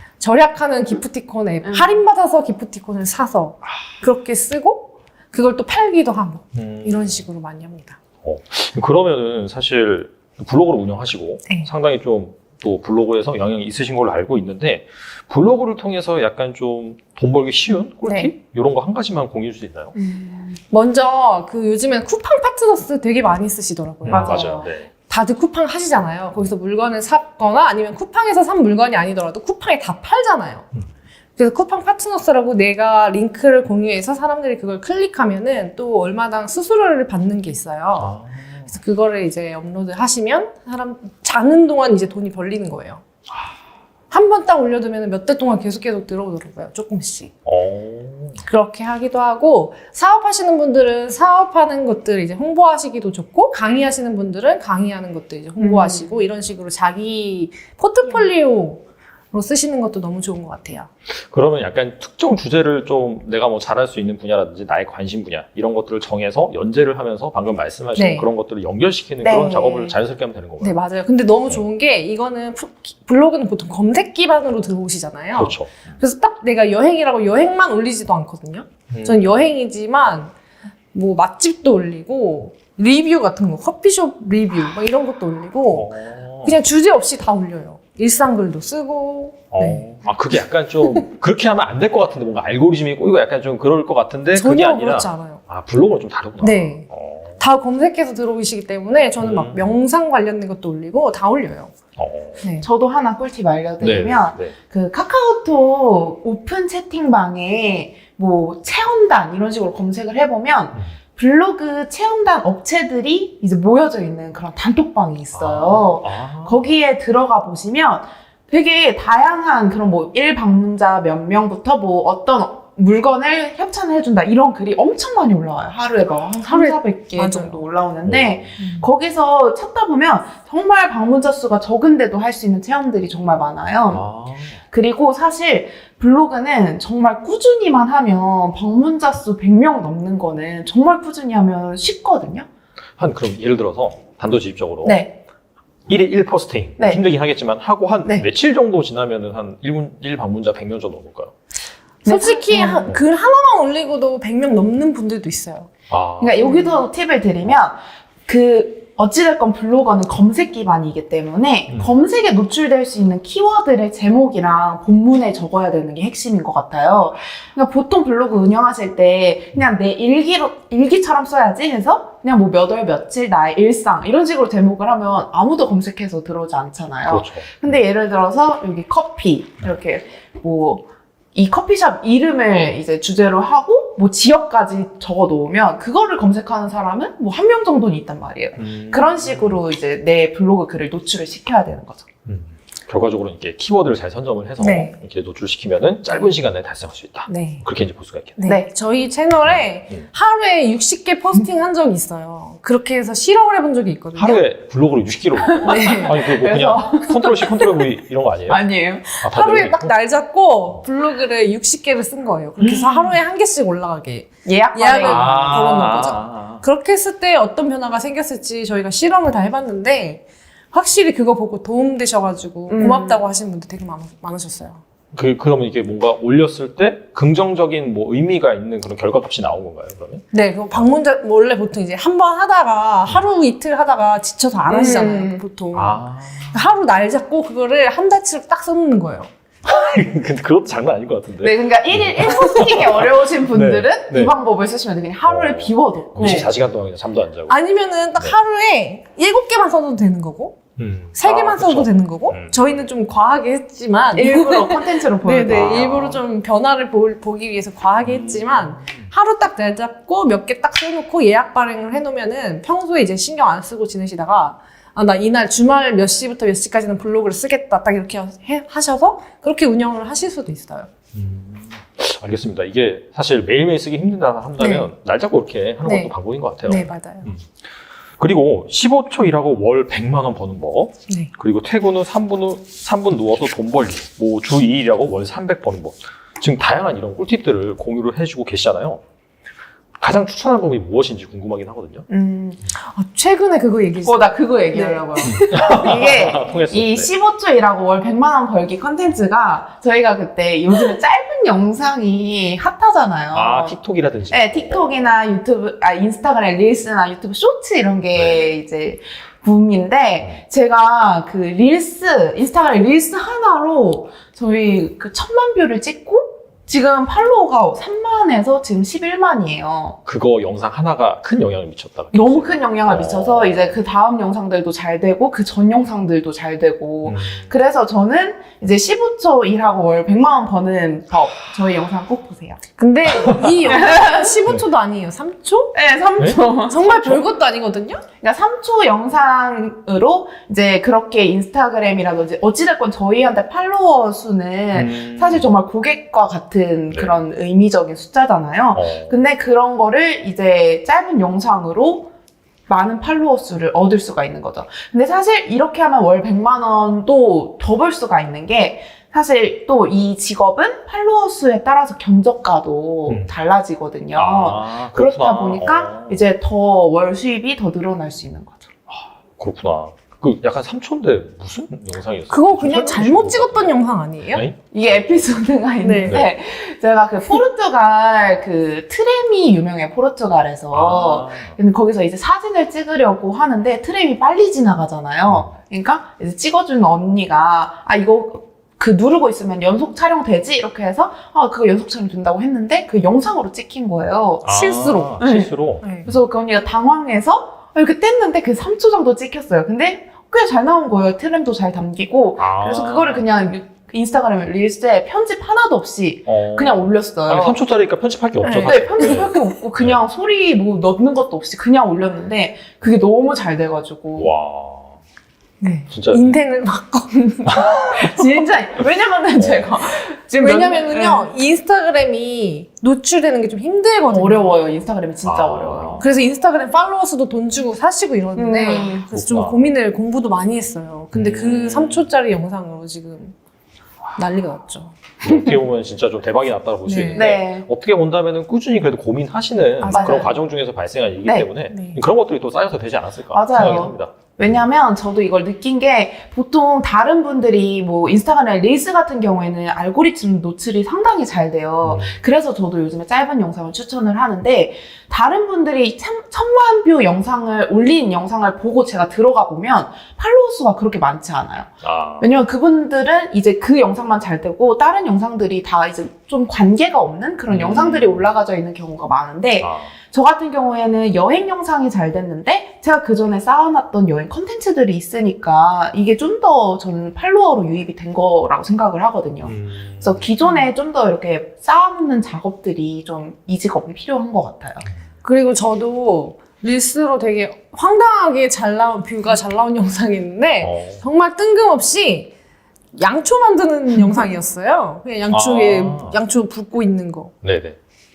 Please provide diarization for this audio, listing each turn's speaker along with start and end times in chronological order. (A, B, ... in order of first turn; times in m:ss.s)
0:00.2-0:08.0 A
0:01.6-0:02.0 B
0:06.5-0:07.2 C
0:08.2-0:19.9 C
0:18.0-0:18.3 A
0:19.9-0:20.6 B
0:20.7-0:30.7 A
0:24.0-0:24.9 C
0:24.1-0:24.7 B
0:31.4-0:38.2 A
0:38.0-0:38.7 C
0:38.7-0:43.0 A
0:44.1-0:47.3 A
0:47.4-0:48.4 C
0:48.4-1:00.9 A
0:55.6-0:56.1 B
1:01.3-1:10.8 C
1:07.9-1:08.3 A
1:09.2-1:10.0 B
1:10.6-1:20.3 A
1:15.3-1:15.8 C
1:18.9-1:19.3 C
1:20.9-1:25.9 A
1:25.7-1:26.6 C
1:26.4-1:29.8 A
1:29.5-1:37.4 C
1:34.3-1:35.4 A
1:36.4-1:36.8 A
1:37.4-1:41.7 A
1:39.2-1:39.7 C
1:42.0-1:42.4 C
1:42.4-1:42.6 A
1:42.6-2:14.0 B
1:43.8-1:44.5 C
1:55.3-1:56.7 C
2:06.4-2:07.6 A
2:08.0-2:08.5 C
2:08.6-2:08.8 A
2:13.9-2:14.6 C
2:14.7-2:22.5 B
2:23.0-2:25.1 C
2:24.8-2:25.1 B
2:25.9-2:31.3 C
2:26.8-2:27.0 B
2:32.0-2:32.9 B
2:32.0-2:35.7 A
2:35.9-2:36.8 C
2:36.2-3:12.1 B
2:57.0-2:57.7 C
3:08.6-3:09.6 C
3:12.2-3:18.4 C
3:14.6-3:15.0 A
3:17.3-3:17.6 A
3:18.4-3:24.4 A
3:19.4-3:20.0 C
3:24.2-3:29.9 C
3:25.4-3:27.8 B
3:25.6-3:26.2 A
3:28.5-3:29.1 B
3:29.2-3:44.8 A
3:32.6-3:33.2 B
3:34.4-3:35.8 B
3:35.0-3:36.6 C
3:42.7-3:43.2 B
3:45.1-3:50.8 C
3:50.3-3:59.3 A
3:54.7-3:55.4 B
3:55.7-3:56.5 C
3:59.6-4:04.3 C
4:01.4-4:06.5 B
4:05.2-4:07.6 C
4:06.2-4:06.5 A
4:07.5-4:10.6 A
4:10.8-4:12.8 C
4:11.1-4:30.9 A
4:14.1-4:16.2 B
4:15.4-4:16.2 C
4:18.0-4:19.1 C
4:31.1-4:37.5 C
4:34.6-4:34.9 A
4:35.8-4:36.1 A
4:36.6-4:37.3 A
4:38.2-4:49.0 C
4:50.0-4:52.0 C
4:52.1-4:52.6 B
4:52.7-4:55.8 A
4:54.0-5:03.8 B
4:55.3-4:57.1 C
5:03.3-5:05.0 C
5:04.3-5:20.0 B
5:08.1-5:08.5 C
5:20.0-5:23.8 C
5:22.1-5:32.6 B
5:27.0-5:27.5 C
5:32.8-5:35.7 A
5:33.2-5:33.7 C
5:33.6-5:34.4 B
5:35.7-5:37.2 B
5:36.7-5:38.0 A
5:38.2-5:52.1 B
5:44.7-5:45.5 C
5:46.9-5:47.2 C
5:48.7-5:49.2 C
5:52.7-6:08.7 B
6:03.1-6:03.3 C
6:04.1-6:06.2 C
6:08.9-6:13.7 C
6:12.3-6:14.4 A
6:14.3-6:15.3 C
6:14.7-6:34.5 B
6:15.8-6:16.2 A
6:20.7-6:21.6 C
6:34.4-6:36.2 C
6:34.5-6:35.2 A
6:35.2-6:35.5 B
6:36.0-6:47.6 B
6:42.4-6:43.2 C
6:46.3-6:50.0 C
6:48.4-6:49.2 A
6:48.6-6:54.3 B
6:54.2-6:55.0 C
6:55.6-6:57.6 A
6:55.9-6:56.3 C
6:57.3-7:01.3 B
6:57.4-6:58.0 C
6:59.4-6:59.7 C
7:00.4-7:04.6 A
7:04.1-7:06.1 B
7:05.2-7:06.0 C
7:06.0-7:13.3 A
7:08.4-7:09.1 B
7:09.1-7:09.7 C
7:11.1-7:12.0 C
7:14.2-7:15.3 A
7:15.2-7:24.6 C
7:16.8-7:17.3 A
7:17.1-7:17.6 B
7:19.8-7:20.3 A
7:19.9-7:20.4 B
7:21.7-7:22.0 A
7:23.3-8:04.9 B
7:31.8-7:32.2 C
7:41.8-7:42.3 C
7:47.5-7:48.3 C
7:49.6-7:49.9 C
7:59.4-8:00.3 C
8:00.4-8:00.7 A
8:05.2-8:12.3 A
8:10.6-8:11.0 C
8:13.0-8:17.3 A
8:15.3-8:16.2 C
8:17.4-8:17.8 C